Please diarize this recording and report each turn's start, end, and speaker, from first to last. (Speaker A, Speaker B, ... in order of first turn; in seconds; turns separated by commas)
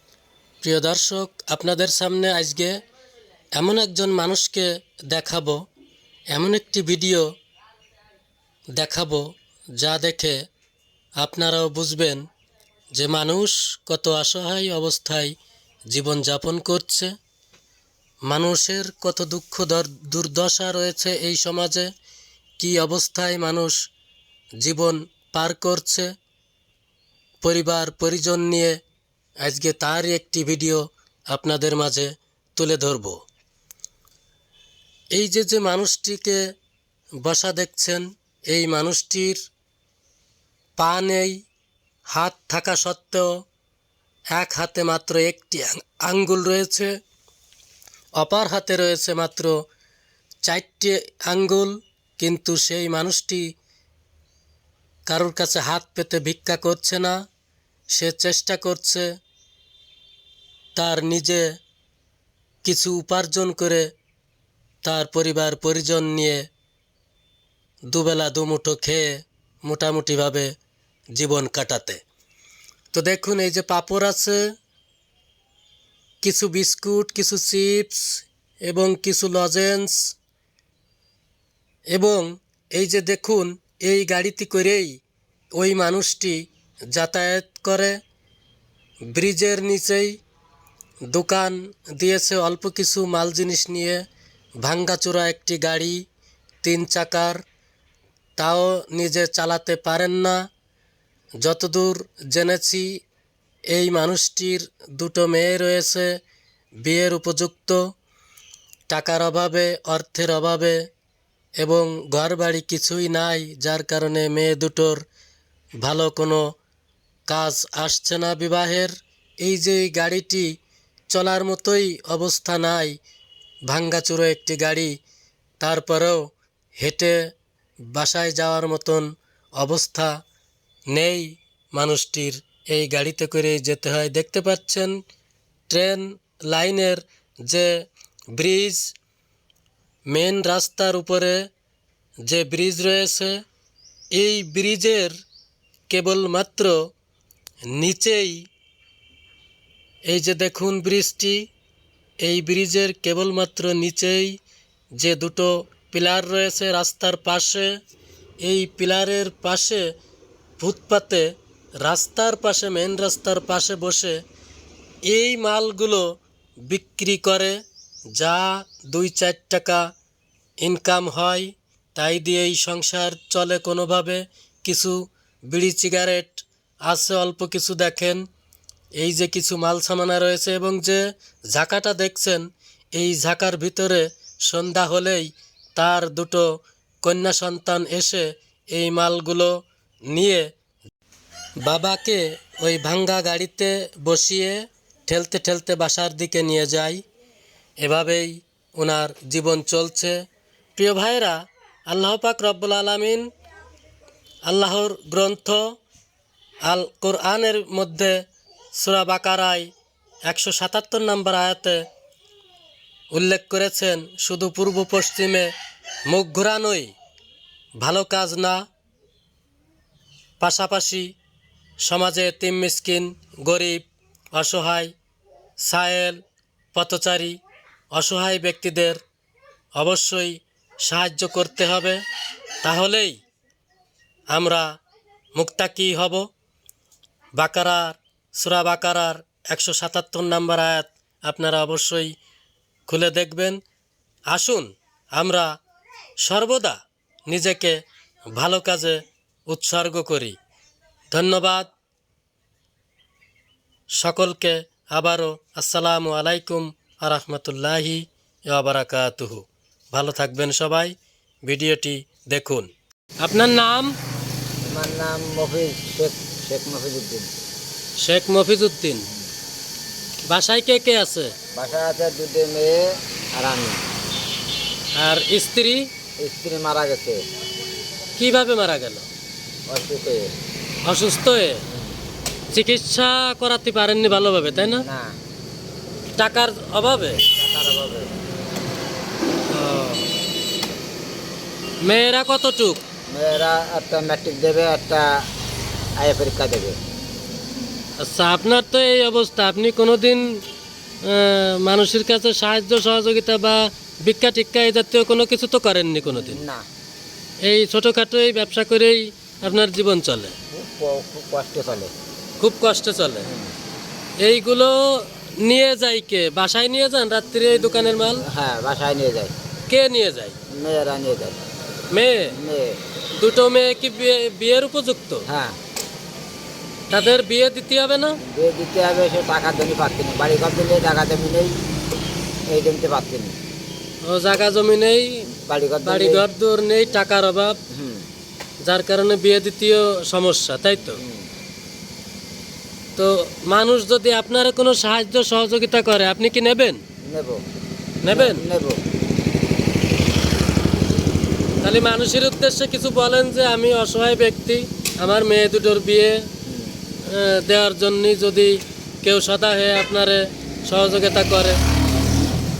Speaker A: 0.6-2.7, Speaker A: 3.5-5.6, Speaker A: 6.3-7.2, Speaker A: 8.8-9.2, Speaker A: 9.8-10.4, Speaker A: 11.2-12.2, Speaker A: 12.9-15.3, Speaker A: 15.9-17.1, Speaker A: 18.3-21.9, Speaker A: 22.6-23.8, Speaker A: 24.6-26.1, Speaker A: 27.4-28.8, Speaker A: 29.4-33.2, Speaker A: 35.1-36.4, Speaker A: 37.2-39.4, Speaker A: 40.8-41.3, Speaker A: 42.1-43.3, Speaker A: 44.3-46.9, Speaker A: 48.2-49.5, Speaker A: 50.5-53.4, Speaker A: 55.1-57.1, Speaker A: 58.0-59.1, Speaker A: 60.8-61.4, Speaker A: 62.6-63.8, Speaker A: 64.8-66.4, Speaker A: 67.9-69.1, Speaker A: 69.7-70.5, Speaker A: 71.2-72.0, Speaker A: 72.9-74.4, Speaker A: 76.2-80.1, Speaker A: 81.9-85.0, Speaker A: 85.6-86.4, Speaker A: 86.9-88.0, Speaker A: 89.1-90.1, Speaker A: 91.1-94.0, Speaker A: 94.6-96.0, Speaker A: 96.6-97.4, Speaker A: 98.4-100.3, Speaker A: 101.4-102.9, Speaker A: 103.7-106.1, Speaker A: 106.8-107.8, Speaker A: 108.9-110.8, Speaker A: 111.6-115.0, Speaker A: 115.8-116.4, Speaker A: 117.3-118.9, Speaker A: 119.4-120.5, Speaker A: 121.1-123.0, Speaker A: 123.7-124.9, Speaker A: 125.6-127.2, Speaker A: 127.9-130.1, Speaker A: 130.9-134.9, Speaker A: 135.7-137.7, Speaker A: 138.3-138.9, Speaker A: 140.1-141.4, Speaker A: 142.2-143.4, Speaker A: 144.1-145.1, Speaker A: 145.9-146.8, Speaker A: 147.7-148.4, Speaker A: 150.1-151.4, Speaker A: 152.2-154.4, Speaker A: 154.9-157.7, Speaker A: 158.4-159.9, Speaker A: 160.6-161.3, Speaker A: 161.8-164.2, Speaker A: 165.1-166.1, Speaker A: 166.6-167.6, Speaker A: 168.1-169.9, Speaker A: 170.6-178.2, Speaker A: 179.0-186.4, Speaker A: 187.0-189.6, Speaker A: 190.1-190.5, Speaker A: 191.6-197.0, Speaker A: 197.8-200.2, Speaker A: 200.8-203.3, Speaker A: 204.5-205.6, Speaker A: 206.6-208.1, Speaker A: 208.8-209.7, Speaker A: 210.2-211.8, Speaker A: 213.1-215.5, Speaker A: 216.1-216.9, Speaker A: 217.8-218.6, Speaker A: 220.4-221.1, Speaker A: 221.8-223.8, Speaker A: 224.3-224.9, Speaker A: 225.6-226.2, Speaker A: 226.7-227.4, Speaker A: 227.9-229.0, Speaker A: 229.8-232.0, Speaker A: 232.6-233.2, Speaker A: 234.3-234.7, Speaker A: 235.3-236.2, Speaker A: 237.4-242.1, Speaker A: 242.9-243.6, Speaker A: 244.3-245.5, Speaker A: 246.2-246.8, Speaker A: 247.3-247.8, Speaker A: 248.3-250.3, Speaker A: 251.1-251.7, Speaker A: 254.0-260.9, Speaker A: 261.4-262.7, Speaker A: 263.2-263.9, Speaker B: 264.7-267.3, Speaker A: 268.0-269.1, Speaker A: 270.3-271.3, Speaker B: 271.5-273.8, Speaker A: 275.0-275.9, Speaker B: 276.2-277.2, Speaker A: 278.2-279.1, Speaker B: 279.7-280.3, Speaker A: 280.9-281.6, Speaker B: 281.7-282.0, Speaker A: 282.5-284.8, Speaker B: 284.4-285.1, Speaker A: 286.2-287.2, Speaker B: 287.4-288.1, Speaker A: 289.5-290.1, Speaker A: 291.8-292.8, Speaker B: 293.1-295.1, Speaker B: 296.0-296.8, Speaker A: 298.0-300.3, Speaker A: 301.1-306.4, Speaker B: 306.0-306.6, Speaker A: 307.4-310.3, Speaker B: 310.5-311.9, Speaker A: 312.4-313.3, Speaker B: 313.2-313.5, Speaker A: 314.2-318.2, Speaker B: 318.1-319.3, Speaker A: 319.7-320.4, Speaker B: 320.5-321.4, Speaker A: 321.9-322.3, Speaker B: 322.2-322.8, Speaker A: 323.2-325.2, Speaker B: 325.3-325.6, Speaker A: 326.9-328.2, Speaker B: 328.2-331.6, Speaker B: 332.5-333.3, Speaker A: 334.0-335.3, Speaker B: 335.2-336.2, Speaker A: 335.8-337.6, Speaker B: 337.7-338.1, Speaker A: 338.6-341.0, Speaker B: 340.9-341.3, Speaker A: 343.0-346.8, Speaker B: 347.1-347.4, Speaker A: 348.0-348.4, Speaker B: 348.1-348.8, Speaker A: 351.6-356.2, Speaker B: 356.4-356.8, Speaker A: 357.1-361.6